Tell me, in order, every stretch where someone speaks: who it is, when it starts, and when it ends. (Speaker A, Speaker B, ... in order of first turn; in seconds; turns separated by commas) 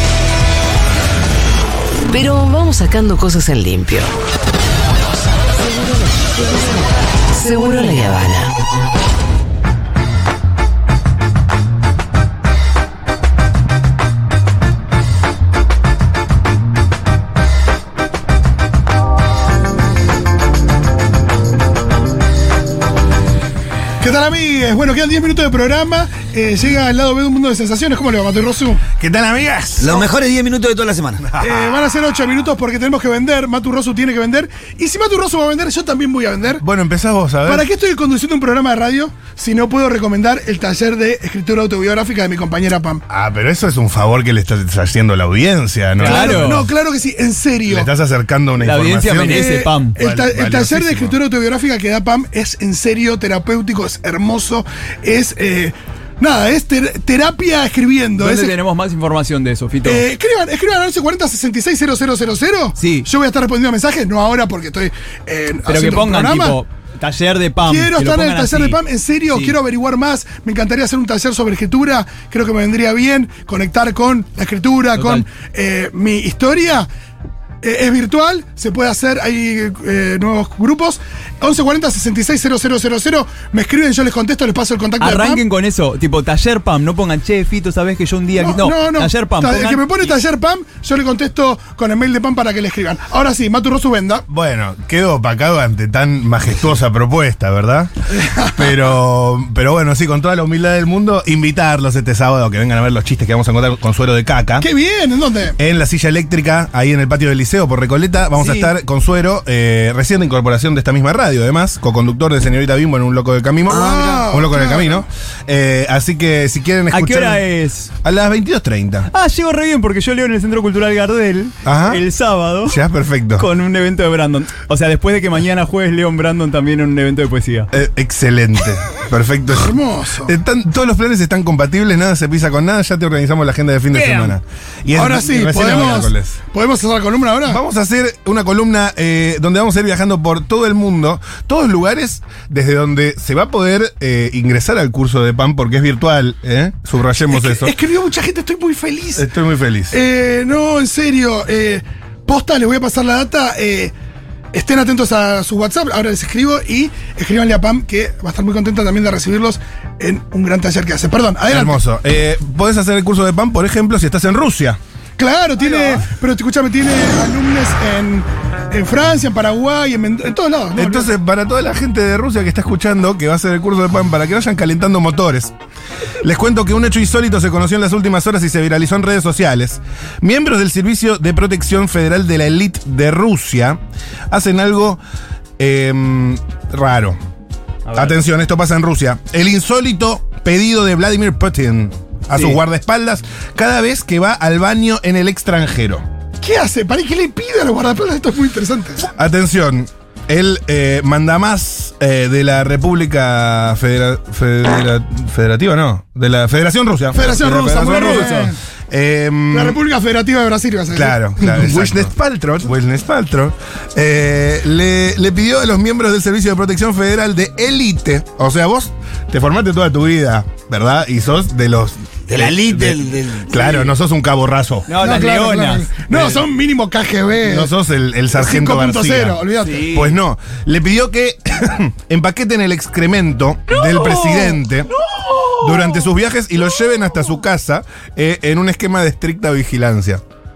Speaker A: 2.1-4.1, Speaker A: 5.6-8.5, Speaker B: 24.0-28.8, Speaker C: 29.0-30.0, Speaker D: 29.8-31.3, Speaker C: 31.2-31.9, Speaker B: 31.4-36.6, Speaker C: 36.6-37.7, Speaker B: 37.5-43.0, Speaker C: 43.1-46.6, Speaker E: 46.0-46.7, Speaker B: 46.0-47.9, Speaker C: 47.7-49.4, Speaker E: 48.6-50.0, Speaker B: 49.1-58.6, Speaker C: 50.0-51.2, Speaker E: 58.2-60.0, Speaker B: 59.8-66.6, Speaker E: 62.8-63.1, Speaker E: 65.7-68.8, Speaker B: 67.7-76.9, Speaker E: 74.9-75.2, Speaker B: 77.6-85.4, Speaker E: 85.0-90.2, Speaker B: 88.3-94.2, Speaker C: 94.3-97.9, Speaker B: 98.2-98.7, Speaker C: 98.5-104.7, Speaker B: 104.6-105.6, Speaker C: 105.6-117.5, Speaker D: 113.7-114.3, Speaker B: 113.7-115.0, Speaker E: 116.9-117.9, Speaker C: 118.0-119.1, Speaker E: 119.1-122.8, Speaker C: 121.6-122.0, Speaker C: 122.6-123.5, Speaker E: 123.3-127.7, Speaker C: 127.7-129.7, Speaker B: 129.5-130.3, Speaker C: 130.2-136.4, Speaker E: 133.9-134.3, Speaker B: 134.9-137.6, Speaker C: 137.4-147.7, Speaker B: 147.3-149.3, Speaker C: 149.2-150.0, Speaker B: 149.9-153.9, Speaker B: 154.5-161.8, Speaker C: 161.5-164.8, Speaker B: 165.2-171.1, Speaker E: 165.7-166.0, Speaker C: 170.8-175.5, Speaker C: 176.2-183.8, Speaker C: 184.3-185.0, Speaker C: 185.6-187.2, Speaker E: 187.9-188.2, Speaker C: 187.9-196.0, Speaker E: 192.3-192.6, Speaker B: 196.4-199.0, Speaker C: 199.0-209.8, Speaker B: 207.1-208.6, Speaker E: 207.7-208.5, Speaker B: 209.5-212.0, Speaker C: 210.9-224.9, Speaker D: 222.3-223.9, Speaker E: 224.9-226.4, Speaker B: 224.9-227.7, Speaker C: 227.4-234.9, Speaker B: 228.3-230.0, Speaker E: 229.6-230.1, Speaker B: 233.7-235.7, Speaker C: 235.5-240.2